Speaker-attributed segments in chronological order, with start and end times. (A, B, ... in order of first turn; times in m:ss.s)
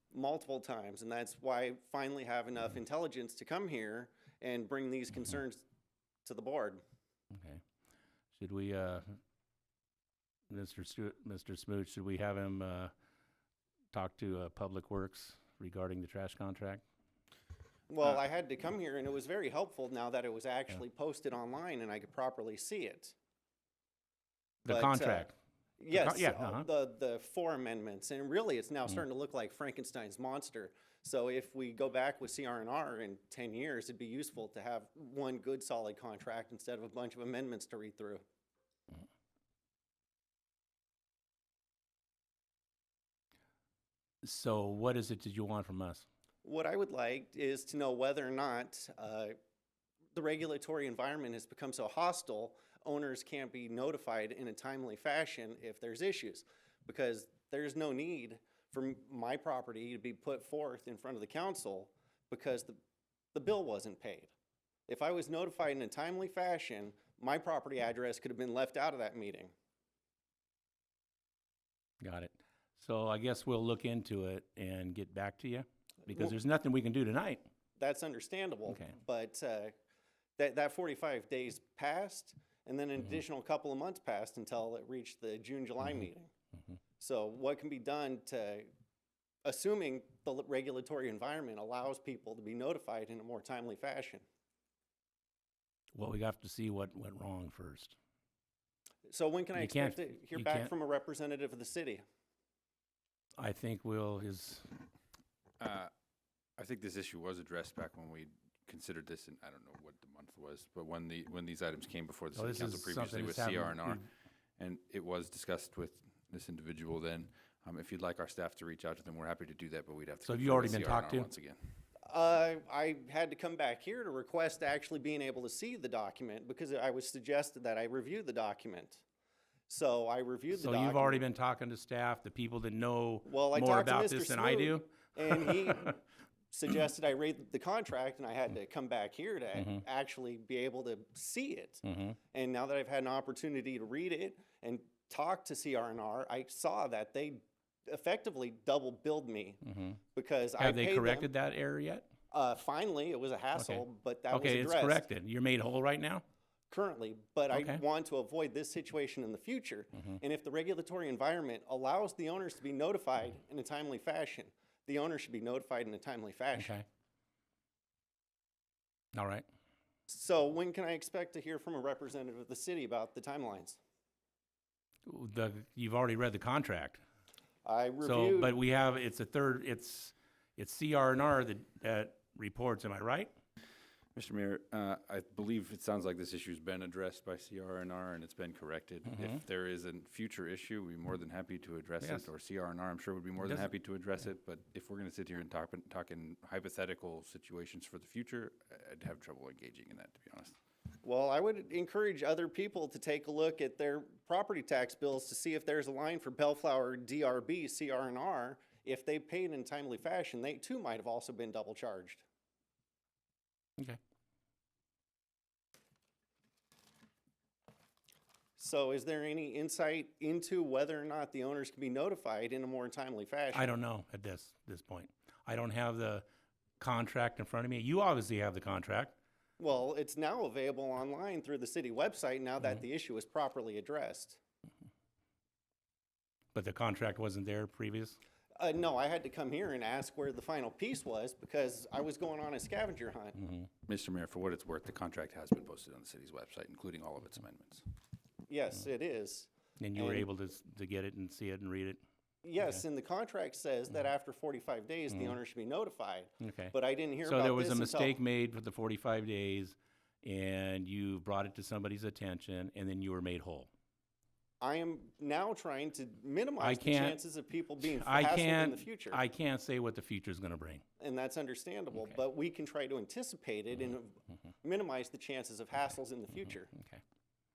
0:00.1-0:05.6 A
0:06.2-0:06.8 A
0:08.3-0:09.0 B
0:10.5-0:12.9 B
0:13.9-0:16.8 B
0:17.9-0:23.1 A
0:24.6-0:25.3 A
0:24.7-0:25.3 B
0:25.8-0:38.2 A
0:25.9-0:26.7 B
0:44.2-0:46.0 B
0:46.4-0:49.4 A
0:50.1-1:02.8 A
1:03.3-1:04.3 A
1:04.9-1:09.5 A
1:12.0-1:17.4 B
1:17.8-1:19.7 A
1:18.7-1:18.9 B
1:20.4-1:26.3 A
1:27.0-1:28.7 A
1:29.4-1:34.2 A
1:35.9-1:37.9 B
1:39.1-1:42.0 A
1:39.5-1:40.7 B
1:43.4-1:44.7 B
1:45.6-1:45.9 C
1:46.6-1:54.0 C
1:52.3-1:54.0 B
1:54.6-2:01.6 C
2:00.2-2:01.3 B
2:02.0-2:09.0 A
2:09.7-2:11.2 A
2:10.5-2:15.9 B
2:13.2-2:29.6 A
2:19.6-2:19.8 B
2:21.8-2:22.2 B
2:29.6-2:30.0 B
2:30.1-2:31.3 A
2:30.6-2:32.1 B
2:32.3-2:35.0 A
2:33.6-2:36.2 B
2:36.7-2:46.7 A
2:37.5-2:37.8 B
2:46.5-2:46.8 B
2:49.1-2:49.4 B
2:50.1-2:53.8 A
2:55.0-2:57.0 B
2:57.6-2:58.5 A
2:58.0-3:03.3 B
3:04.1-3:20.5 C
3:09.1-3:09.4 B
3:12.0-3:12.3 B
3:13.4-3:13.7 B
3:21.0-3:32.2 A
3:38.6-3:43.7 A
3:43.5-3:46.2 B
3:46.8-3:49.1 B
3:49.6-3:54.4 A
3:56.5-3:58.2 B
3:58.6-4:03.4 A
4:03.9-4:07.8 C
4:08.5-4:10.3 A
4:09.8-4:12.0 B
4:12.4-4:18.2 A
4:16.4-4:23.7 B
4:24.6-4:29.2 A
4:26.6-4:27.2 B
4:27.8-4:30.8 B
4:31.0-4:36.7 A